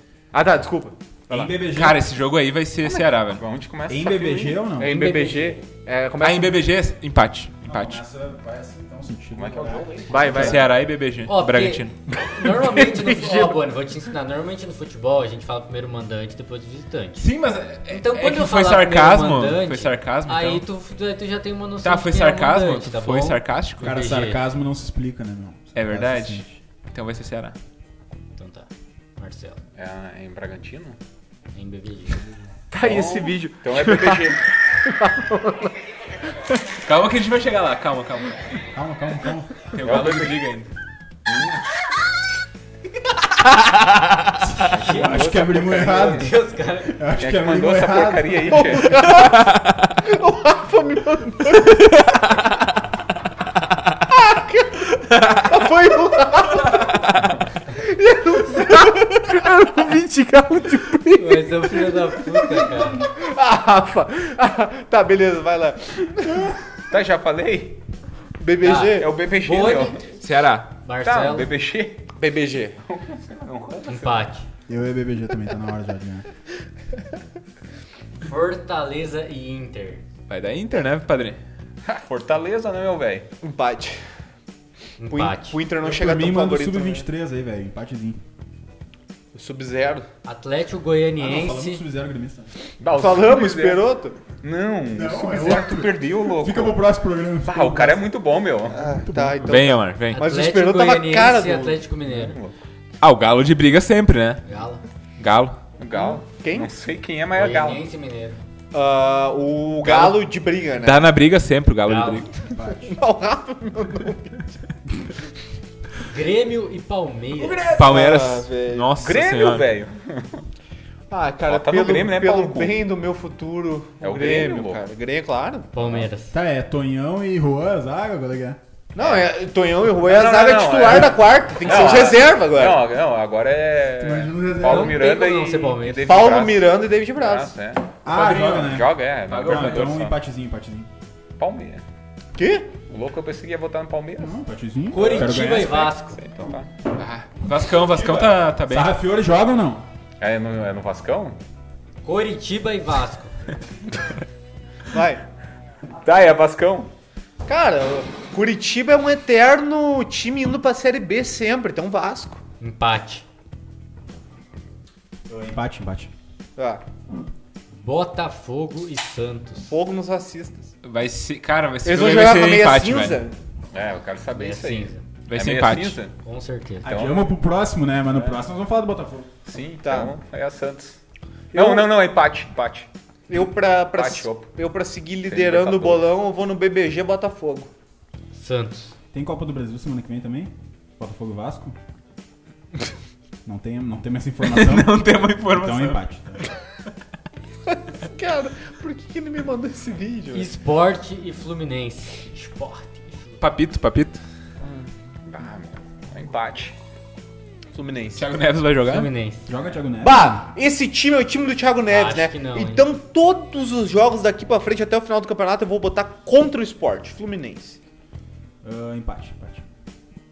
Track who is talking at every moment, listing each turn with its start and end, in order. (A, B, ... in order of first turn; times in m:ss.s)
0:00.3-0:01.6 A
0:01.3-0:02.0 B
0:01.7-0:03.4 C
0:02.8-0:04.6 D
0:03.9-0:05.0 B
0:04.8-0:06.7 A
0:04.8-0:05.6 E
0:06.2-0:08.0 C
0:07.6-0:10.7 B
0:09.4-0:10.6 D
0:10.1-0:10.7 A
0:10.3-0:12.0 C
0:11.2-0:17.3 E
0:12.1-0:13.6 A
0:17.2-0:20.6 C
0:17.9-0:24.4 E
0:21.8-0:23.9 C
0:23.8-0:26.5 B
0:25.8-0:27.6 C
0:28.4-0:29.6 E
0:29.8-0:31.0 D
0:31.5-0:32.4 E
0:32.7-0:35.8 A
0:32.8-0:34.4 D
0:36.8-0:38.6 C
0:38.7-0:39.6 B
0:39.7-0:40.7 C
0:39.8-0:40.4 D
0:41.3-0:41.6 D
0:44.5-0:48.9 B
0:44.6-0:47.0 E
0:44.7-0:46.3 D
0:47.2-0:49.0 D
0:48.5-0:51.9 A
0:49.2-0:49.6 C
0:54.1-0:57.0 A
0:57.7-1:06.6 A
1:01.1-1:03.1 E
1:06.9-1:07.8 D
1:08.4-1:09.1 A
1:08.6-1:10.2 E
1:08.7-1:10.0 D
1:10.2-1:10.7 C
1:10.8-1:11.5 E
1:11.0-1:12.1 D
1:12.2-1:12.8 A
1:12.9-1:14.3 D
1:13.9-1:14.4 E
1:14.7-1:16.3 B
1:18.2-1:20.0 E
1:20.3-1:21.4 C
1:21.8-1:23.3 D
1:23.4-1:24.0 A
1:25.0-1:25.6 E
1:25.1-1:27.1 A
1:25.8-1:28.2 B
1:29.3-1:30.1 A
1:30.2-1:31.8 E
1:31.2-1:32.5 B
1:32.8-1:33.8 D
1:32.9-1:34.2 A
1:34.4-1:36.8 D
1:34.9-1:38.1 B
1:37.4-1:38.9 D
1:38.7-1:39.6 B
1:38.8-1:41.8 A
1:39.4-1:40.2 C
1:40.1-1:42.4 E
1:42.1-1:42.6 D
1:43.0-1:44.4 C
1:44.5-1:44.8 E
1:45.2-1:45.6 C
1:45.8-1:47.8 D
1:45.9-1:46.7 A
1:47.3-1:48.4 E
1:48.7-1:51.1 A
1:50.8-1:52.5 C
1:51.9-1:52.3 E
1:52.4-1:53.0 B
1:52.8-1:54.6 A
1:56.0-1:57.7 E
1:57.4-1:57.7 B
1:57.6-1:58.9 A
1:57.7-1:59.7 C
1:59.0-2:00.4 D
2:01.1-2:05.7 A
2:01.5-2:02.8 D
2:04.0-2:04.8 D
2:05.7-2:06.3 E
2:06.3-2:08.6 B
2:09.0-2:12.9 A
2:09.0-2:09.3 D
2:09.8-2:20.2 D
2:14.0-2:15.0 B
2:14.6-2:16.2 E
2:16.1-2:17.5 A
2:18.0-2:20.9 B
2:18.1-2:18.7 C
2:19.3-2:20.0 C
2:21.4-2:21.8 D
2:22.4-2:22.7 A
2:22.9-2:24.4 D
2:24.2-2:25.9 B
2:24.9-2:26.2 E
2:25.0-2:26.7 D
2:27.0-2:28.9 C
2:27.9-2:29.8 B
2:30.2-2:31.4 D
2:32.0-2:33.5 E
2:34.9-2:35.2 A
2:36.0-2:36.9 D
2:37.5-2:42.4 A
2:42.6-2:43.2 E
2:45.3-2:46.1 B
2:46.6-2:46.8 A
2:47.8-2:49.7 E
2:49.7-2:50.7 A
2:50.8-2:53.2 C
2:51.8-2:53.4 A
2:53.7-2:56.1 D
2:54.4-2:55.1 E
2:55.3-2:56.0 C
2:56.2-2:57.0 E
2:56.8-2:57.3 D
2:56.8-2:59.3 B
2:58.1-2:58.4 D
2:59.5-3:01.0 D
2:59.8-3:00.1 A
3:01.5-3:01.9 A
3:01.5-3:02.9 D
3:03.3-3:07.7 A
3:03.9-3:04.5 D
3:05.3-3:06.1 D
3:08.3-3:08.9 E
3:09.1-3:11.8 B
3:13.4-3:16.4 B
3:14.4-3:16.0 C
3:17.7-3:20.5 A
3:20.3-3:23.4 E
3:23.4-3:24.2 C
3:24.6-3:24.9 A
3:25.3-3:26.8 D
3:27.7-3:28.3 A
3:28.1-3:29.1 C
3:28.8-3:29.5 E
3:29.5-3:30.5 B
3:30.0-3:37.8 A
3:31.9-3:32.9 E
3:38.6-3:39.6 B